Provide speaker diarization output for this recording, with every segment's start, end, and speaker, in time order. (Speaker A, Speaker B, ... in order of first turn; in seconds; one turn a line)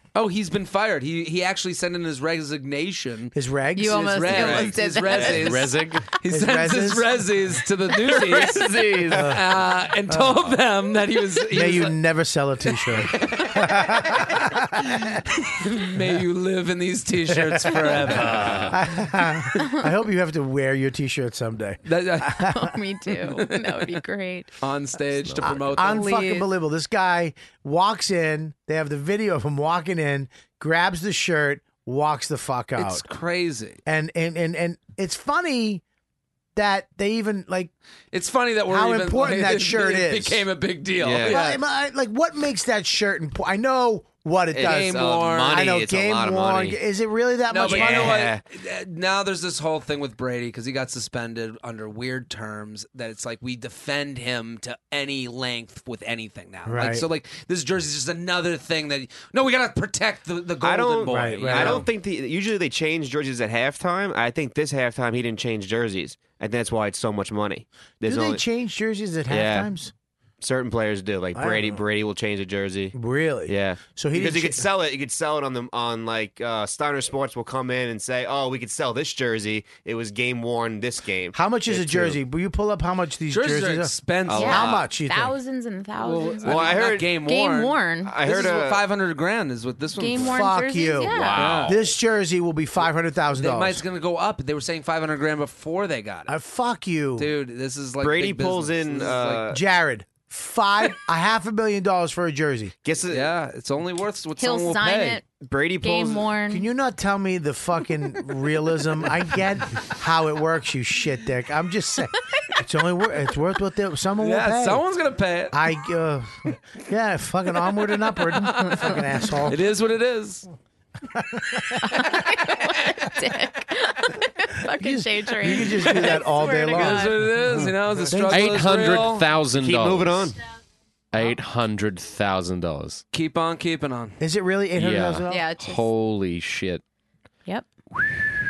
Speaker A: 0.1-12.0
Speaker B: 3.3-4.7
Speaker C: 3.8-5.6
Speaker D: 5.2-6.1
Speaker B: 6.3-7.2
Speaker D: 8.0-9.4
Speaker B: 9.1-9.4
Speaker B: 10.1-10.4
Speaker B: 11.5-15.2
Speaker A: 12.8-14.2
Speaker A: 15.5-18.7
Speaker B: 17.4-22.6
Speaker D: 18.1-18.8
Speaker A: 21.9-22.4
Speaker C: 22.4-24.5
Speaker A: 23.1-23.8
Speaker A: 24.6-26.2
Speaker B: 25.4-33.0
Speaker C: 25.9-26.5
Speaker A: 32.8-33.8
Speaker B: 33.9-35.8
Speaker B: 36.5-37.7
Speaker A: 38.1-41.6
Speaker B: 38.7-40.5
Speaker E: 41.0-41.4
Speaker B: 41.2-48.3
Speaker E: 44.5-46.8
Speaker A: 44.6-45.6
Speaker A: 47.5-61.9
Speaker E: 47.6-48.4
Speaker B: 56.7-57.0
Speaker E: 60.6-68.4
Speaker B: 61.1-61.9
Speaker B: 68.0-69.9
Speaker E: 69.3-69.7
Speaker E: 70.4-73.0
Speaker B: 71.3-71.8
Speaker B: 73.0-74.7
Speaker E: 73.5-82.2
Speaker B: 81.3-85.3
Speaker A: 83.3-84.8
Speaker E: 84.3-84.8
Speaker C: 84.3-88.1
Speaker A: 86.0-90.5
Speaker E: 86.4-87.1
Speaker E: 88.0-88.9
Speaker C: 90.0-91.5
Speaker B: 90.2-93.8
Speaker D: 91.1-91.8
Speaker A: 91.3-91.9
Speaker A: 93.3-96.3
Speaker B: 96.3-97.3
Speaker A: 97.2-99.5
Speaker E: 98.0-99.6
Speaker B: 99.5-102.7
Speaker E: 102.8-103.3
Speaker A: 103.1-105.2
Speaker C: 104.4-105.2
Speaker E: 105.3-106.3
Speaker C: 105.8-106.7
Speaker B: 106.5-114.8
Speaker A: 114.2-115.6
Speaker B: 115.5-119.6
Speaker A: 118.2-120.5
Speaker C: 121.8-127.4
Speaker B: 124.8-127.3
Speaker A: 125.7-129.3
Speaker D: 127.6-130.2
Speaker B: 128.1-128.6
Speaker E: 129.6-130.4
Speaker D: 131.1-133.0
Speaker A: 133.1-134.2
Speaker B: 134.2-135.5
Speaker D: 134.8-136.8
Speaker C: 135.3-135.9